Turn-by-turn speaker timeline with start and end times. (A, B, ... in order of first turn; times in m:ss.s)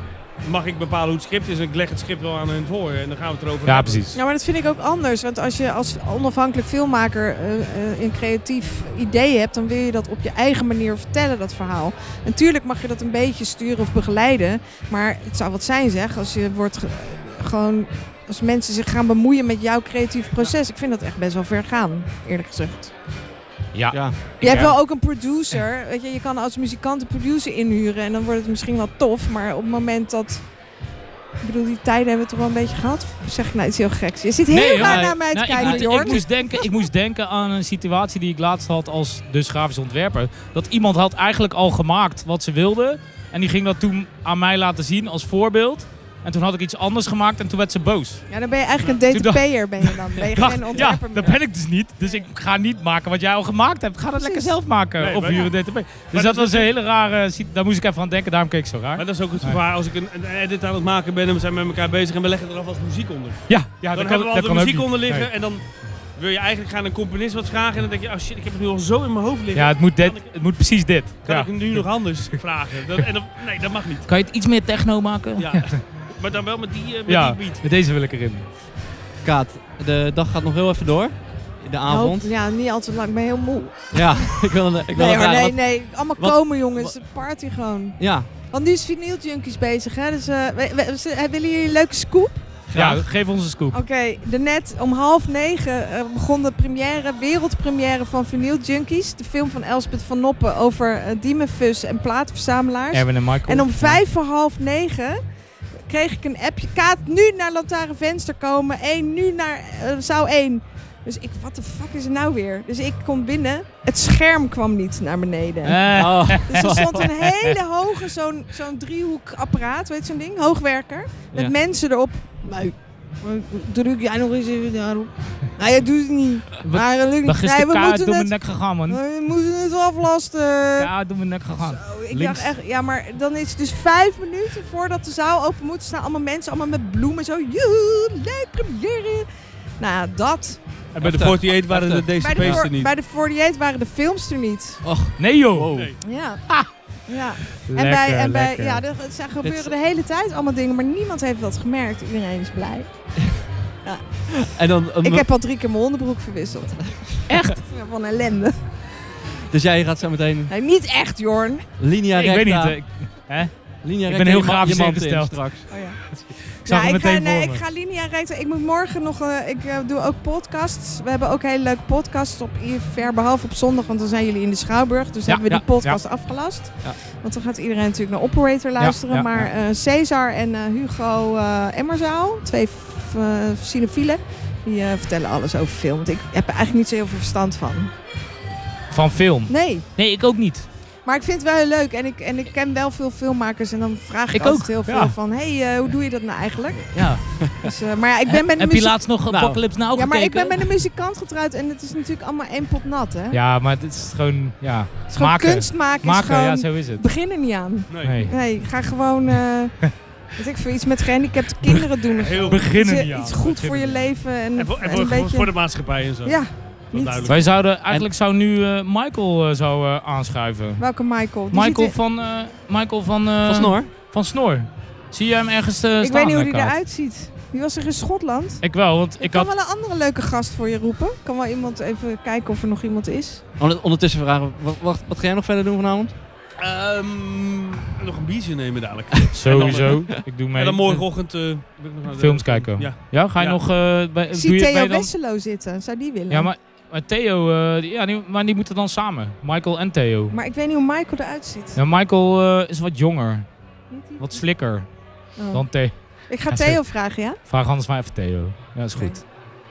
0:00.4-0:04.2 A
0:03.7-0:04.2 B
0:04.1-0:22.9 C
0:23.7-0:24.8 B
0:23.9-0:24.8 D
0:24.4-0:30.5 C
0:31.4-0:36.7 C
0:34.5-0:36.2 D
0:34.5-0:48.3 B
0:48.3-0:51.4 C
0:49.1-0:59.6 B
0:54.2-0:54.5 C
0:55.0-0:56.7 A
0:59.0-1:10.4 A
1:03.5-1:05.3 B
1:09.5-1:12.0 B
1:11.2-1:14.1 A
1:14.1-1:15.8 B
1:15.4-1:17.6 A
1:17.1-1:18.5 B
1:19.2-1:22.3 D
1:21.9-1:32.5 C
1:23.9-1:27.0 D
1:28.0-1:28.3 D
1:32.7-1:33.0 D
1:32.7-1:33.8 B
1:33.7-1:45.2 C
1:42.9-1:44.0 B
1:45.9-2:10.9 C
1:55.6-1:57.5 B
1:56.0-1:57.1 D
2:06.6-2:09.0 B
2:10.8-2:12.5 B
2:11.6-2:19.2 C
2:19.8-2:20.6 C
2:20.9-2:22.9 A
2:21.0-2:22.7 D
2:22.2-2:24.8 C
2:24.8-2:25.9 D
2:25.2-2:26.7 B
2:26.0-2:33.3 C
2:27.6-2:28.8 B
2:29.4-2:29.8 D
2:33.8-2:34.4 C
2:34.4-2:35.3 D
2:35.0-2:38.7 C
2:37.3-2:37.6 B
2:39.5-2:40.5 D
2:40.5-2:41.6 C
2:41.8-2:42.8 D
2:42.1-2:47.6 B
2:43.8-2:45.7 D
2:45.7-3:07.9 C
2:55.3-2:56.0 B
2:58.8-2:59.5 B
3:08.9-3:10.7 B
3:09.5-3:09.8 C
3:11.0-3:19.1 C
3:14.4-3:15.2 B
3:16.9-3:17.5 B
3:18.3-3:20.7 B
3:19.3-3:19.6 D
3:19.9-3:23.4 C
3:23.3-3:27.0 B
3:25.1-3:35.7 C
3:27.9-3:28.3 A
3:28.0-3:28.4 B
3:32.1-3:32.6 A
3:32.5-3:34.1 B
3:34.6-3:37.6 A
3:36.2-3:37.5 C
3:37.3-3:40.9 B
3:40.8-3:42.0 C
3:41.5-3:46.8 B
3:43.4-3:43.9 D
3:46.0-3:53.4 C
3:48.6-3:49.5 B
3:53.6-3:56.1 D
3:56.6-4:03.6 A
3:59.3-4:01.1 B
4:02.1-4:05.1 B
4:04.3-4:06.5 C
4:06.3-4:10.4 B
4:10.3-4:11.8 C
4:11.8-4:13.5 B
4:13.9-4:14.4 C
4:14.2-4:19.3 B
4:15.4-4:17.4 C
4:19.0-4:19.2 C